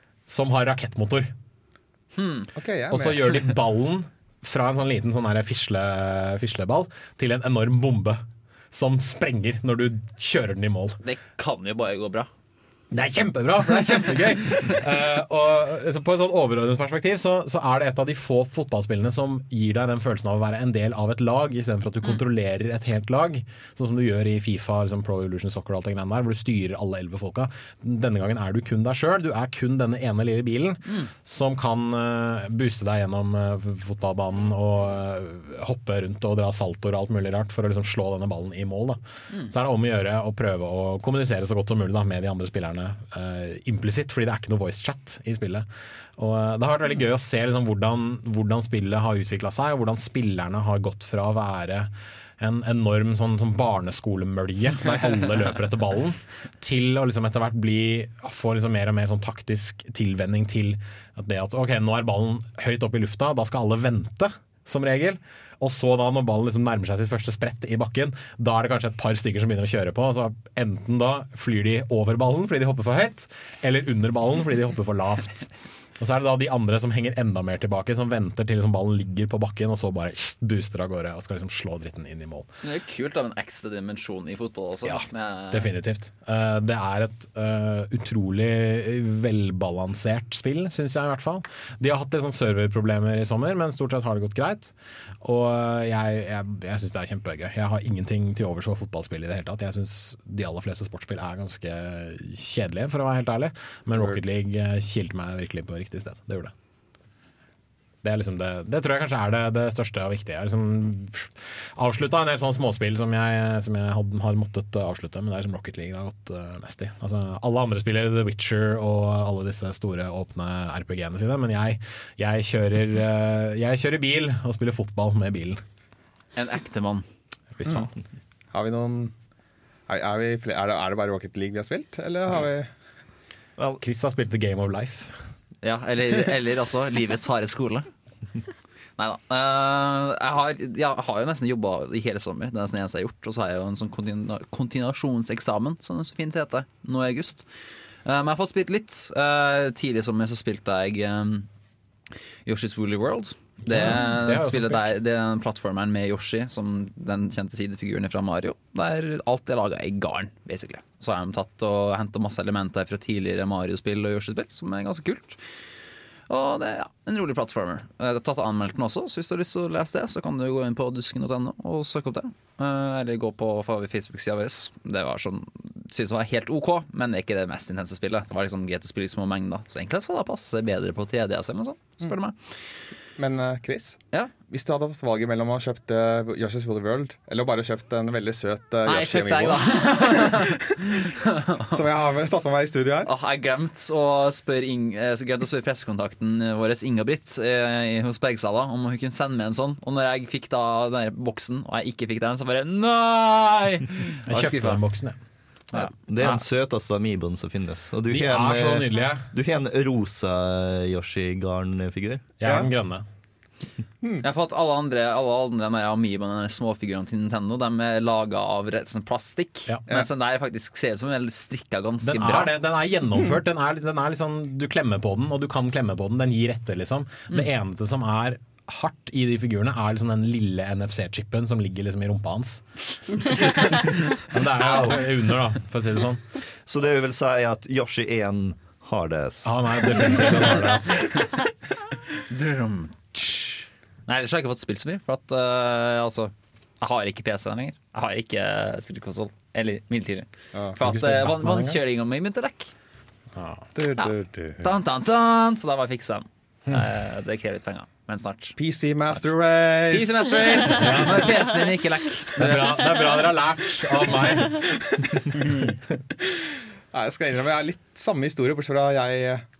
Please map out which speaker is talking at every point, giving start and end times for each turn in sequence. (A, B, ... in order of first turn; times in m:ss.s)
0:00.3-0:01.3 A
0:02.2-0:02.5 B
0:02.6-0:03.5 C
0:02.9-0:11.0 A
0:11.0-0:12.3 B
0:12.9-0:45.6 A
0:46.2-1:22.5 A
1:22.6-1:25.7 B
1:24.8-1:46.5 A
1:48.0-2:05.6 A
2:06.3-2:07.0 B
2:07.6-2:07.9 A
2:08.5-2:09.1 C
2:09.9-2:12.7 C
2:13.6-2:13.8 D
2:13.8-2:15.1 A
2:15.6-2:17.9 B
2:19.0-2:31.5 B
2:32.4-2:45.4 B
2:33.6-2:34.9 A
2:46.3-3:02.3 B
3:03.2-3:10.6 C
3:08.8-3:11.7 B
3:11.7-3:13.1 C
3:13.0-3:24.8 B
3:24.2-3:25.2 A
3:25.7-3:26.4 B
3:25.7-3:32.4 D
3:28.1-3:29.3 A
3:32.4-3:33.0 A
3:32.4-3:32.7 C
3:34.2-3:42.5 B
3:42.0-3:56.2 A
3:54.6-3:55.3 B
3:56.6-4:00.3 D
3:59.4-4:01.0 A
4:02.3-4:12.7 B
4:10.8-4:11.8 A
4:13.4-4:13.7 A
4:13.7-4:14.6 C
4:14.0-4:18.5 B
4:18.6-4:20.8 C
4:19.9-4:22.9 B
4:20.7-4:21.2 A
4:22.4-4:24.6 A
4:24.6-4:29.4 C